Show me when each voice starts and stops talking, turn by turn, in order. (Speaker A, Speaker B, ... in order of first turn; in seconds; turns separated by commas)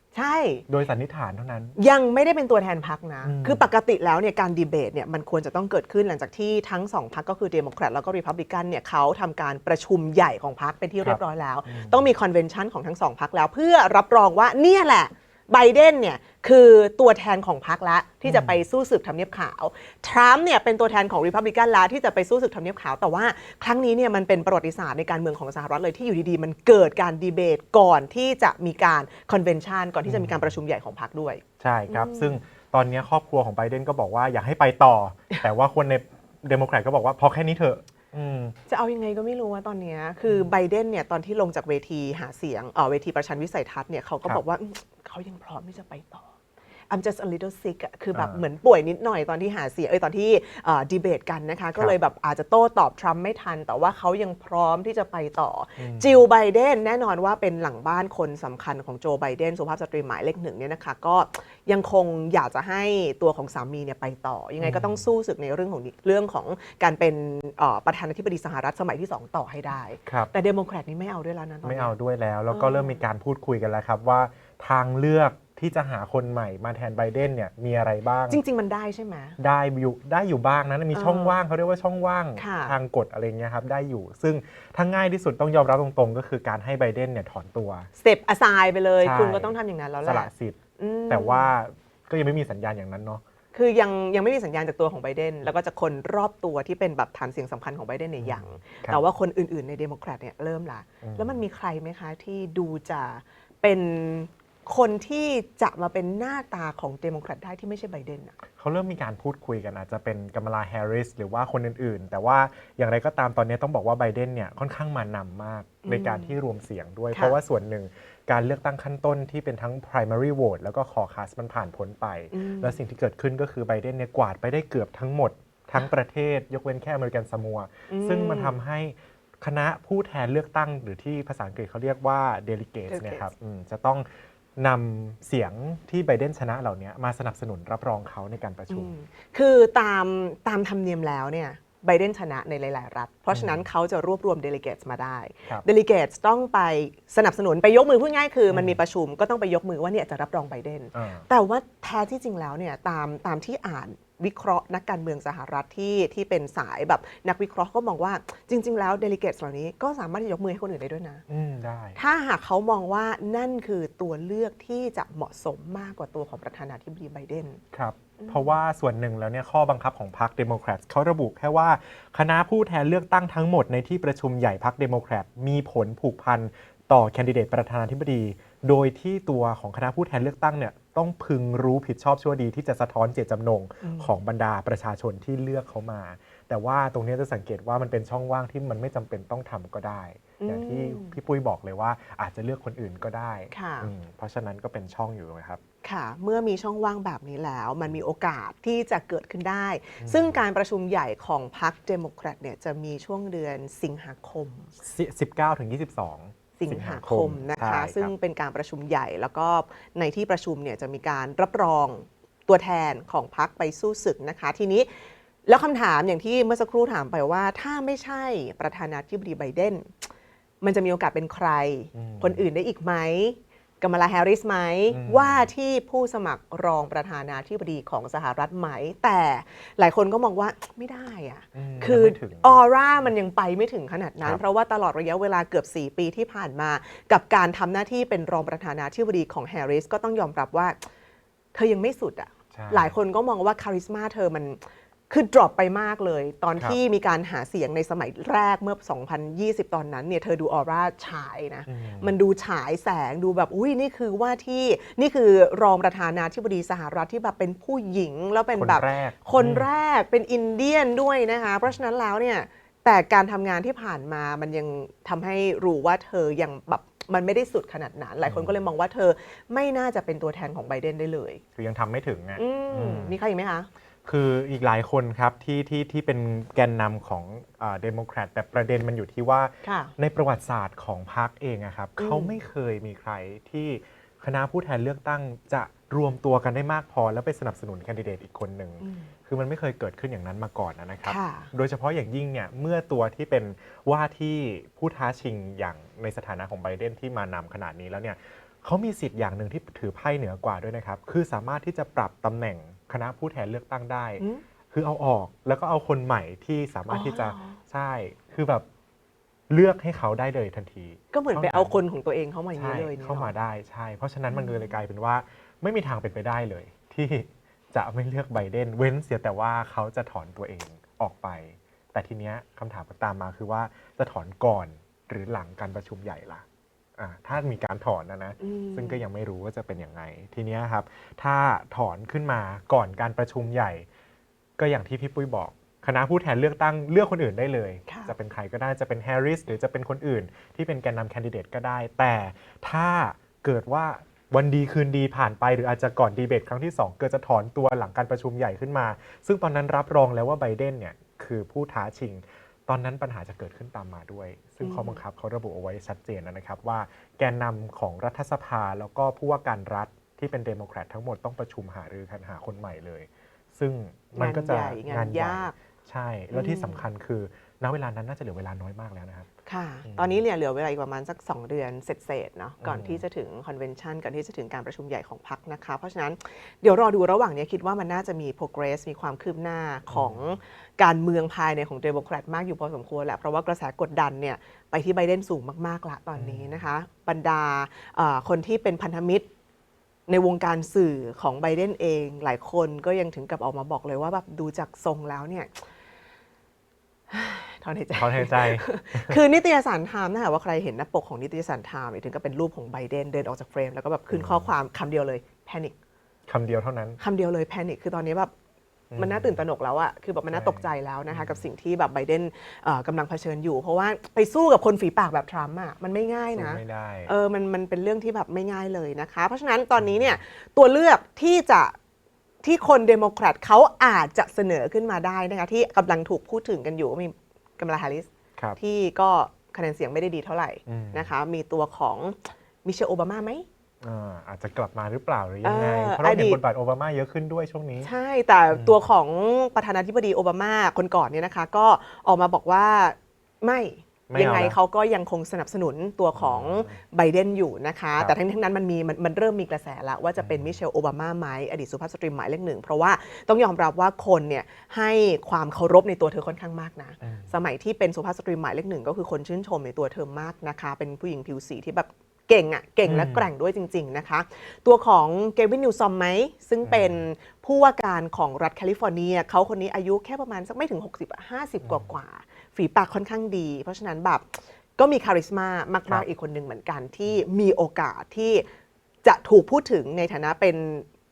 Speaker A: 0.1-0.7, Speaker B: 0.7-1.7, Speaker A: 1.8-32.4, Speaker B: 3.2-3.6, Speaker B: 11.0-12.1, Speaker B: 18.2-18.6, Speaker B: 30.1-30.6, Speaker B: 31.6-38.5, Speaker A: 38.7-46.3, Speaker B: 40.2-40.5, Speaker A: 46.9-71.9, Speaker B: 48.1-48.4, Speaker B: 55.8-56.2, Speaker B: 64.6-65.1, Speaker B: 70.1-70.3, Speaker B: 71.6-78.4, Speaker A: 72.5-73.0, Speaker A: 78.3-79.4, Speaker B: 79.4-87.9, Speaker A: 80.9-81.3, Speaker A: 82.4-82.8, Speaker A: 88.0-91.5, Speaker B: 89.0-93.2, Speaker A: 93.5-108.3, Speaker B: 98.2-99.0, Speaker B: 101.0-101.4, Speaker B: 108.6-138.9, Speaker A: 115.8-116.4, Speaker A: 117.1-117.4, Speaker A: 122.3-122.8, Speaker A: 127.9-128.6, Speaker A: 132.9-133.3, Speaker A: 138.7-161.2, Speaker B: 143.3-143.7, Speaker B: 148.5-148.8, Speaker B: 150.9-151.2, Speaker B: 161.3-162.0, Speaker A: 162.0-167.6, Speaker B: 167.7-195.6, Speaker A: 168.2-168.6, Speaker A: 183.8-184.1, Speaker A: 190.4-191.2, Speaker A: 193.5-193.9, Speaker A: 195.8-204.7, Speaker B: 200.0-200.4, Speaker B: 204.8-208.1, Speaker A: 206.6-214.9, Speaker A: 215.5-220.1, Speaker A: 220.6-240.8, Speaker B: 221.9-222.4, Speaker B: 224.9-225.5, Speaker B: 231.5-233.1, Speaker A: 241.5-271.4, Speaker B: 242.5-242.9, Speaker B: 251.7-252.2, Speaker B: 258.5-259.7, Speaker B: 268.2-268.6, Speaker B: 271.6-273.2, Speaker A: 272.4-273.7, Speaker B: 274.0-308.6, Speaker A: 279.6-279.9, Speaker A: 282.0-282.4, Speaker A: 288.8-289.1, Speaker A: 291.0-291.5, Speaker A: 304.2-304.4, Speaker A: 306.9-307.6, Speaker B: 309.5-311.8, Speaker A: 311.1-313.3, Speaker B: 312.6-326.4, Speaker A: 314.3-314.7, Speaker B: 327.0-333.9, Speaker A: 328.4-329.0, Speaker B: 334.6-369.2, Speaker A: 337.9-338.1, Speaker A: 354.6-355.0, Speaker A: 364.1-365.5, Speaker A: 366.3-366.8, Speaker A: 369.4-389.3, Speaker B: 369.8-370.2, Speaker B: 372.6-373.0, Speaker B: 379.9-380.4, Speaker B: 386.1-386.6, Speaker A: 390.1-395.6, Speaker A: 397.1-405.8, Speaker B: 397.9-399.2, Speaker B: 404.1-404.5, Speaker B: 406.3-407.0, Speaker A: 407.0-408.3, Speaker B: 408.9-409.4, Speaker A: 408.9-421.8, Speaker B: 410.3-411.5, Speaker B: 416.3-417.1, Speaker B: 419.8-420.2, Speaker A: 422.4-433.4, Speaker B: 430.6-431.1, Speaker B: 433.8-437.9, Speaker A: 435.4-436.4, Speaker A: 437.8-478.4, Speaker B: 438.5-438.8, Speaker B: 444.1-444.6, Speaker B: 446.1-446.8, Speaker B: 450.2-450.6, Speaker B: 457.0-457.3, Speaker B: 462.8-463.3, Speaker B: 466.6-467.0, Speaker B: 471.6-471.9, Speaker A: 479.0-480.9